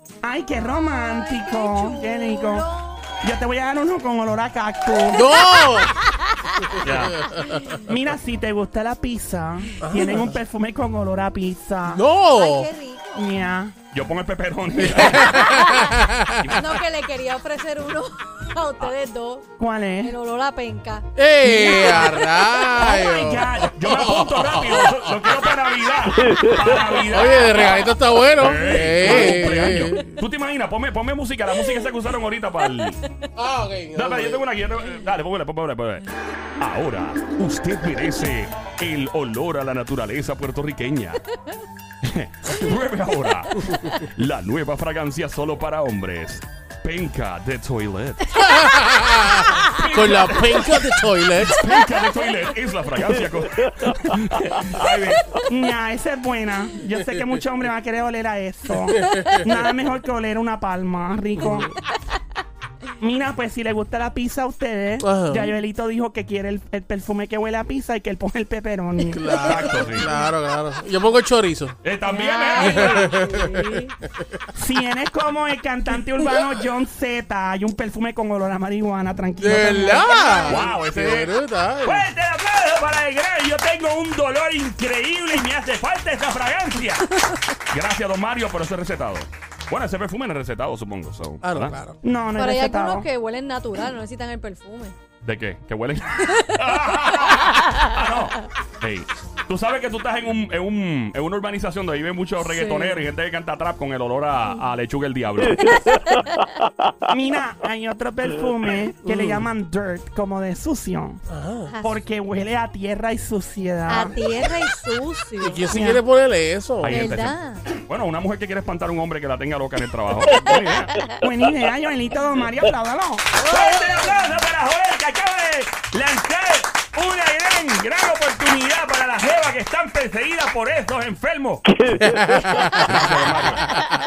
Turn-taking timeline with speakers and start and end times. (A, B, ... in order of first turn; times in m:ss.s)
0:00.2-0:02.6 A
0:00.6-0:03.0 B
0:03.2-0:05.2 A
0:05.1-0:05.9 C
0:06.0-0:07.7 B
0:06.8-0:07.2 D
0:07.1-0:07.6 C
0:07.6-0:12.0 A
0:09.8-0:10.3 C
0:11.9-0:12.7 C
0:12.3-0:13.2 B
0:13.1-0:13.8 A
0:13.9-0:15.5 D
0:14.8-0:16.4 C
0:15.2-0:19.4 B
0:16.4-0:16.7 D
0:19.6-0:20.1 A
0:20.0-0:21.1 B
0:21.2-0:25.1 C
0:21.4-0:23.8 A
0:23.6-0:33.0 D
0:27.0-0:30.1 C
0:29.4-0:30.0 B
0:31.6-0:31.9 B
0:33.4-0:34.5 C
0:33.9-0:36.0 D
0:36.6-0:41.2 D
0:42.0-0:48.4 D
0:48.4-0:51.6 C
0:49.7-0:50.8 D
0:51.4-0:55.4 D
0:55.3-1:01.7 A
1:01.4-1:01.7 C
1:03.0-1:09.5 A
1:05.0-1:05.5 C
1:09.1-1:11.8 C
1:09.4-1:10.1 D
1:09.7-1:10.1 B
1:11.8-1:13.1 D
1:12.0-1:13.9 B
1:12.6-1:13.6 C
1:14.5-1:20.3 A
1:19.4-1:22.1 C
1:20.3-1:20.6 B
1:20.5-1:27.0 D
1:27.7-1:31.8 D
1:31.4-1:32.0 C
1:32.0-1:33.1 A
1:32.4-1:34.9 B
1:35.2-1:45.7 D
1:36.2-1:38.2 B
1:42.4-1:43.0 B
1:45.6-1:46.4 B
1:47.1-1:51.2 A
1:49.0-1:49.5 C
1:51.3-1:51.7 C
1:51.7-1:52.0 B
1:51.8-1:54.2 A
1:53.9-1:55.7 B
1:55.4-1:57.1 C
1:55.7-1:56.0 A
1:56.8-2:00.9 D
1:56.9-1:57.7 B
2:01.0-2:03.3 A
2:03.4-2:11.7 D
2:03.5-2:04.1 B
2:12.0-2:12.8 C
2:12.7-2:13.8 D